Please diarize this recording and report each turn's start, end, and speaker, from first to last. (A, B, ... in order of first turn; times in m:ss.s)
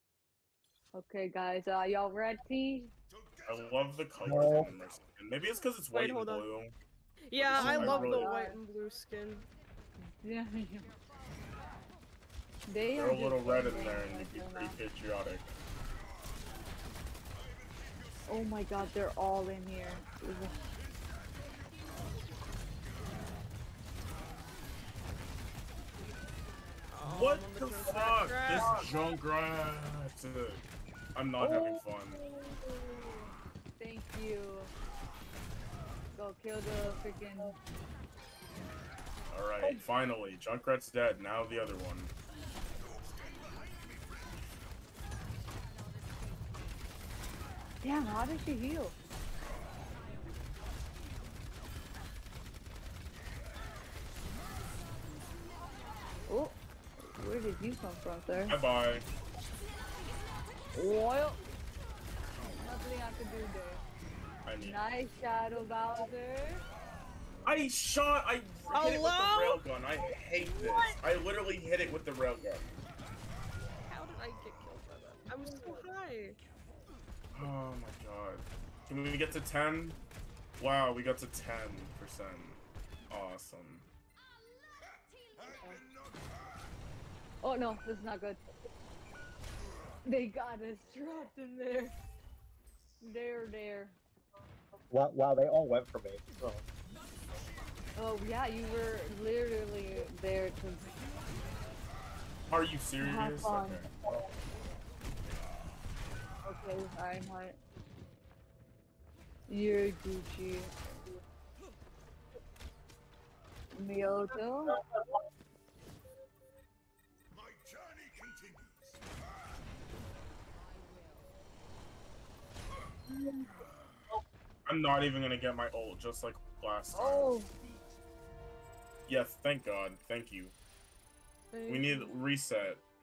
0:00.9-0:02.9 A
0:03.4-0:06.8 B
0:04.2-0:04.7 C
0:05.9-0:06.5 D
0:07.3-0:09.5 D
0:07.4-0:08.3 B
0:07.6-0:08.6 A
0:10.2-0:10.9 A
0:12.7-0:14.8 A
0:12.9-0:15.5 B
0:18.3-0:20.5 A
0:26.9-0:28.7 D
0:27.0-0:30.6 B
0:28.6-0:28.9 A
0:31.2-0:32.2 B
0:31.4-0:34.7 A
0:36.1-0:37.5 A
0:39.3-0:42.1 B
0:47.8-0:48.9 A
0:56.3-0:56.6 A
0:57.2-0:58.6 A
0:58.5-0:59.1 B
1:00.7-1:01.4 A
1:02.5-1:03.8 A
1:04.4-1:04.8 B
1:04.6-1:06.6 A
1:07.4-1:12.7 B
1:08.7-1:09.6 D
1:13.9-1:16.4 D
1:15.4-1:15.8 A
1:17.3-1:20.0 B
1:20.6-1:23.9 B
1:27.4-1:28.4 A
1:30.0-1:31.9 A
1:33.0-1:34.0 A
1:34.9-1:36.6 C
1:38.0-1:40.9 A
1:42.5-1:43.9 B
1:43.0-1:43.9 A
1:46.4-1:47.6 A
1:49.5-1:51.0 A
1:53.7-1:54.7 A
2:03.1-2:03.5 A
2:04.7-2:07.4 B
2:06.9-2:07.5 A
2:09.1-2:10.5 B
2:11.5-2:12.1 D
2:11.7-2:12.8 B